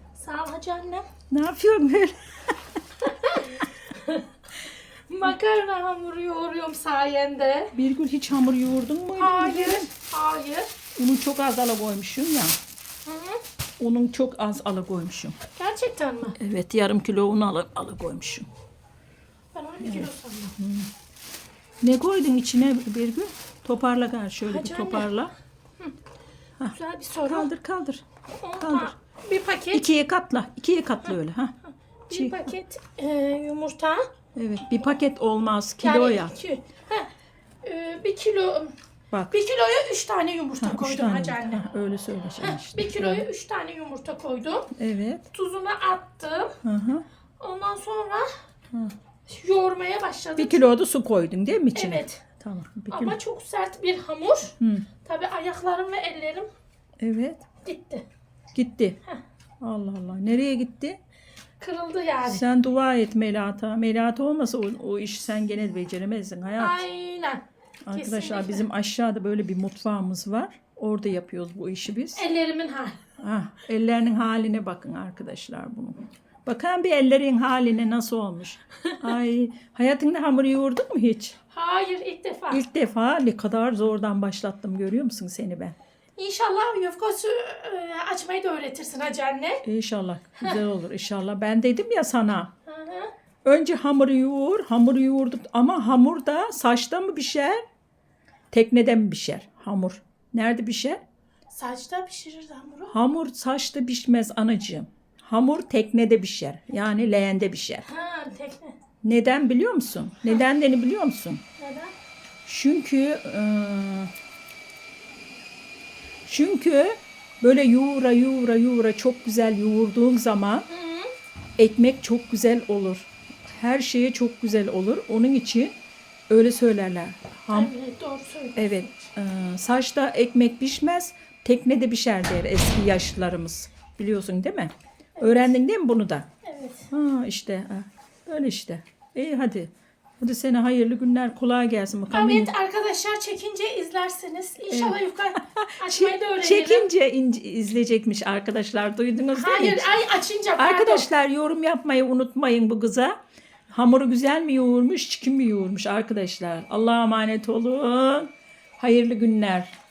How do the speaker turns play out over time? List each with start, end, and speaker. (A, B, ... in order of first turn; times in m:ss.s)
0:00.1-0:01.0 A
0:01.3-0:02.5 B
0:03.0-0:07.7 A
0:07.7-0:09.9 B
0:09.1-0:10.7 A
0:11.0-0:12.6 B
0:13.0-0:13.4 A
0:13.8-0:15.4 B
0:15.6-0:16.4 A
0:16.4-0:18.5 B
0:19.5-0:20.6 A
0:19.8-0:20.9 B
0:21.8-0:25.3 B
0:24.4-0:25.1 A
0:26.6-0:28.0 B
0:26.6-0:27.5 A
0:28.4-0:29.8 A
0:28.6-0:28.9 B
0:29.7-0:31.5 B
0:32.1-0:34.0 A
0:32.1-0:32.5 B
0:34.3-0:36.3 B
0:35.8-0:37.1 A
0:37.6-0:38.7 A
0:39.1-0:39.4 B
0:39.3-0:41.6 A
0:40.6-0:43.2 B
0:42.4-0:44.7 A
0:44.7-0:45.3 B
0:45.3-0:46.6 A
0:46.6-0:47.0 B
0:47.4-0:48.3 A
0:49.3-0:50.6 A
0:50.4-0:53.2 B
0:51.7-0:52.2 A
0:52.9-0:56.5 A
0:54.6-0:54.9 B
0:57.0-0:57.4 B
0:57.6-0:58.0 A
0:58.5-0:59.0 B
0:59.6-1:01.0 B
1:01.6-1:02.4 A
1:02.2-1:06.8 B
1:06.6-1:08.6 A
1:07.8-1:12.2 B
1:12.2-1:13.0 A
1:13.2-1:21.4 B
1:21.5-1:22.6 A
1:22.5-1:25.8 B
1:26.2-1:29.6 A
1:29.6-1:32.5 B
1:32.6-1:33.1 A
1:33.4-1:37.6 B
1:38.5-1:41.0 B
1:41.5-1:42.9 A
1:42.9-1:47.8 B
1:47.8-1:48.8 A
1:49.0-1:51.4 B
1:51.6-1:51.9 A
1:52.4-1:54.1 B
1:56.2-2:00.7 B
2:00.7-2:01.1 A
2:01.6-2:05.7 B
2:06.3-2:07.7 B
2:07.5-2:08.9 A
2:08.5-2:16.3 B
2:15.2-2:15.5 A
2:16.4-2:16.9 A
2:16.9-2:22.5 B
2:22.1-2:26.9 A
2:24.7-2:30.0 B
2:29.3-2:31.1 A
2:30.6-2:33.2 B
2:33.7-2:39.7 B